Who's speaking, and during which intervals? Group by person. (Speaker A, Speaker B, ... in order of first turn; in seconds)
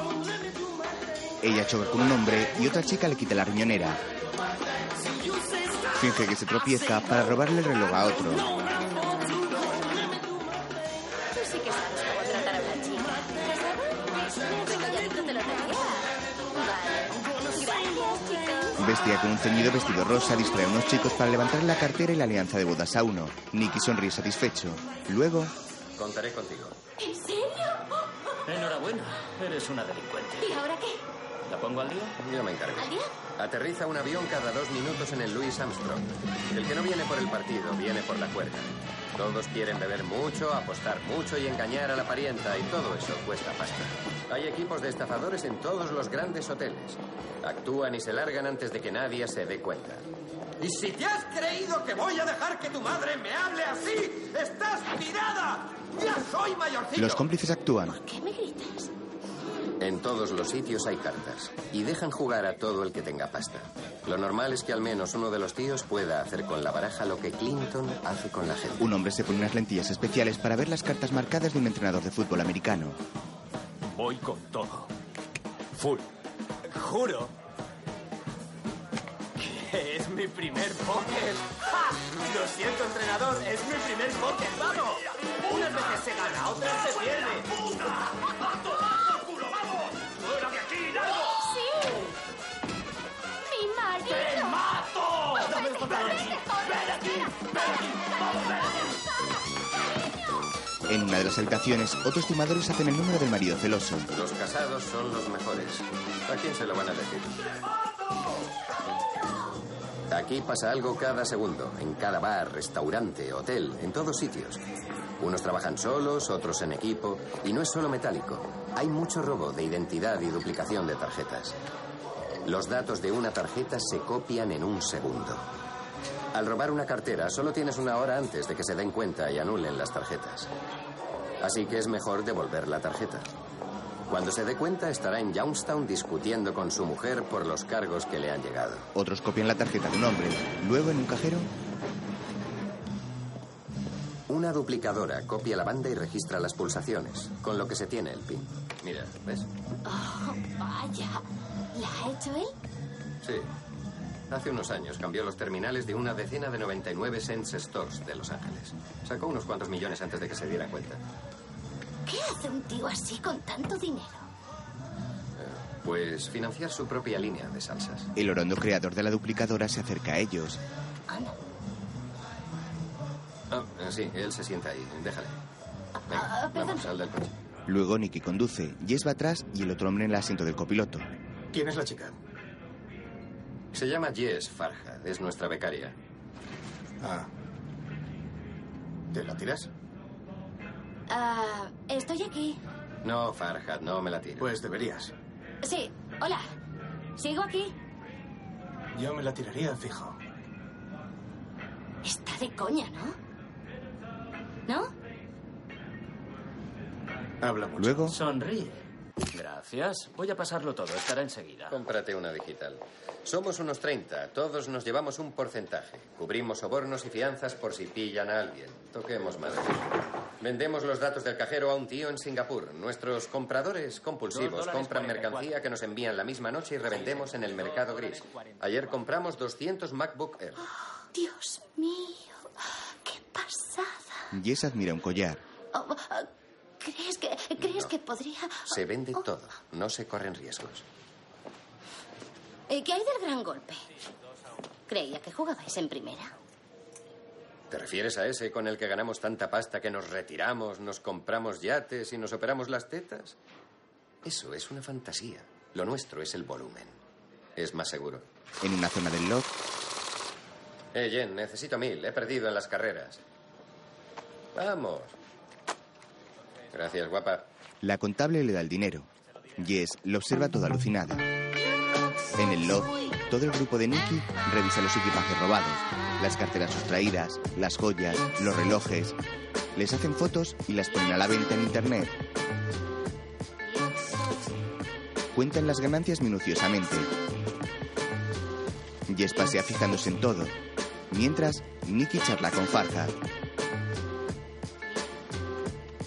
Speaker A: 1.4-4.0, 5.9-8.5, 18.8-25.5, 57.0-58.0, 68.8-73.0, 100.9-104.1, 138.9-141.5, 168.2-170.6, 177.7-181.1, 207.8-208.2, 234.3-235.4, 258.6-259.5, 267.8-271.3, 272.4-279.2, 279.7-282.2, 285.3-287.1, 289.1-290.6, 291.1-293.1
Speaker B: 11.3-18.8, 27.0-27.9, 30.4-31.1, 32.8-33.1, 57.8-58.9, 91.3-92.1, 93.5-94.6, 95.4-96.5, 149.8-152.5, 162.1-164.3, 171.1-171.3, 176.0-176.9, 191.1-192.6, 195.6-196.5, 197.2-197.7, 202.0-203.2, 230.6-232.5, 233.0-234.3, 235.7-236.3, 236.8-239.2, 242.7-243.8, 244.9-246.3
Speaker C: 25.9-26.8, 32.2-50.0, 59.8-68.9, 104.1-107.5, 110.1-114.6, 115.2-121.6, 122.4-125.5, 126.3-130.5, 131.4-133.3, 134.1-138.9, 144.3-149.5, 153.2-153.5, 154.3-161.0, 165.3-168.1, 173.5-175.4, 176.1-177.3, 183.7-185.9, 193.0-194.5, 211.7-230.7, 237.6-237.9, 238.7-240.8, 247.7-253.4, 254.2-257.0, 257.6-258.2, 260.9-263.2, 264.5-265.1, 266.7-267.5
Speaker D: 28.4-30.6, 31.4-32.1, 208.1-211.8, 224.3-225.4
Speaker E: 50.6-57.2
Speaker F: 85.5-87.4, 90.4-90.6
Speaker G: 181.5-182.1, 187.0-187.3, 189.1-189.7, 194.4-195.1, 198.9-200.2, 207.4-208.1